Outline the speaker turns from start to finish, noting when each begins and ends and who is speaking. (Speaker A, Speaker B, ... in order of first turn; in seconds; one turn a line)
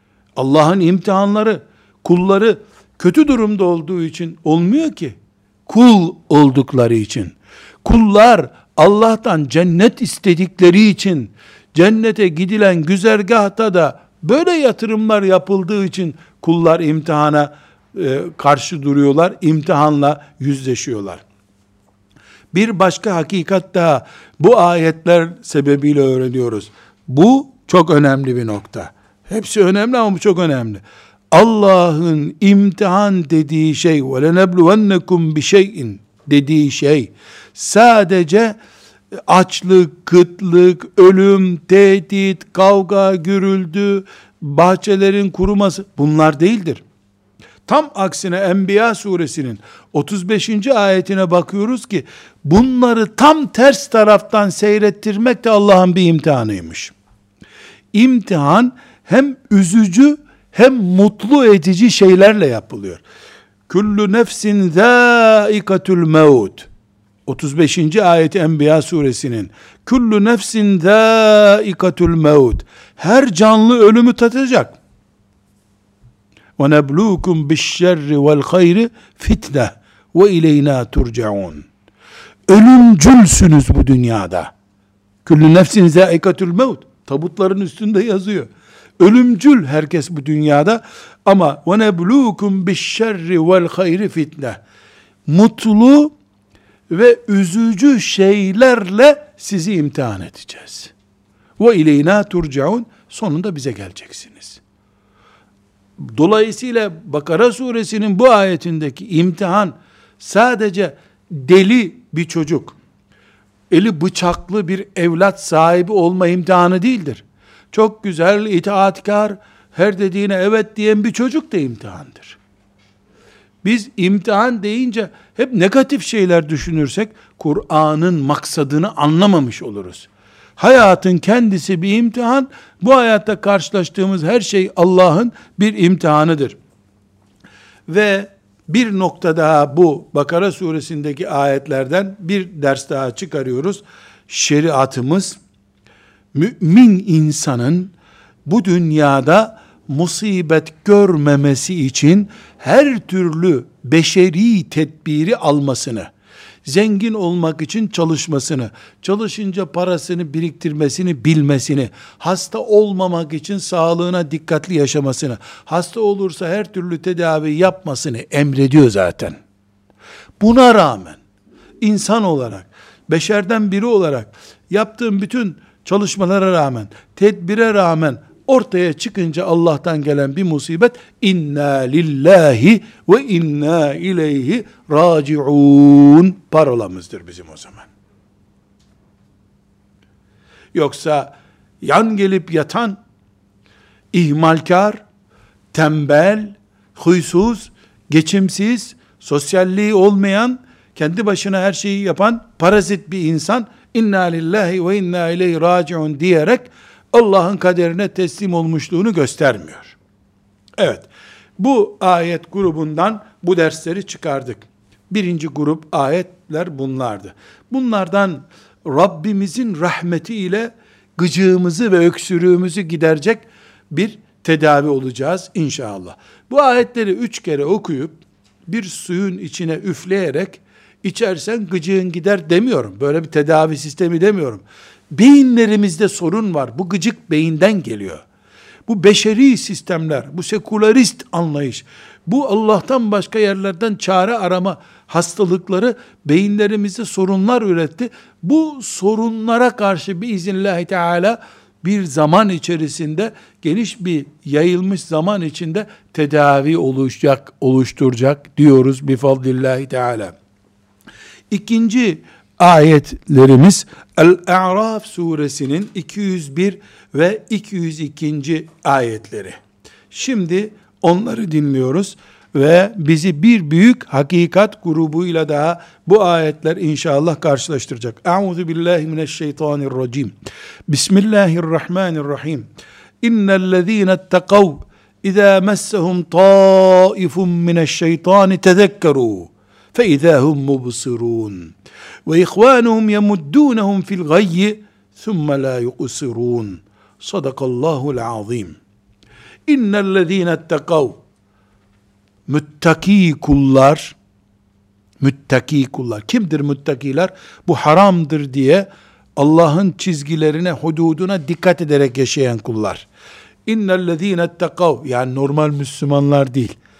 Speaker A: 0.4-21.2
Speaker A: 22.5-38.6
Speaker A: 39.3-46.8
Speaker A: 47.7-56.9
Speaker A: 57.9-63.0
Speaker A: 63.7-66.7
Speaker A: 67.3-74.8
Speaker A: 76.6-81.7
Speaker A: 82.5-84.5
Speaker A: 85.2-94.6
Speaker A: 95.3-96.1
Speaker A: 96.9-100.9
Speaker A: 101.6-104.6
Speaker A: 106.0-112.8
Speaker A: 113.7-122.4
Speaker A: 123.6-136.6
Speaker A: 137.9-145.4
Speaker A: 146.3-147.9
Speaker A: 148.5-156.1
Speaker A: 156.7-169.4
Speaker A: 170.4-171.2
Speaker A: 171.8-187.9
Speaker A: 190.7-193.0
Speaker A: 194.1-195.0
Speaker A: 195.7-210.0
Speaker A: 210.8-238.2
Speaker A: 238.9-260.4
Speaker A: 261.5-269.6
Speaker A: 270.1-280.3
Speaker A: 280.9-282.7
Speaker A: 283.2-291.8
Speaker A: 292.3-298.8
Speaker A: 299.7-301.2
Speaker A: 302.5-304.2
Speaker A: 305.2-313.1
Speaker A: 313.7-316.8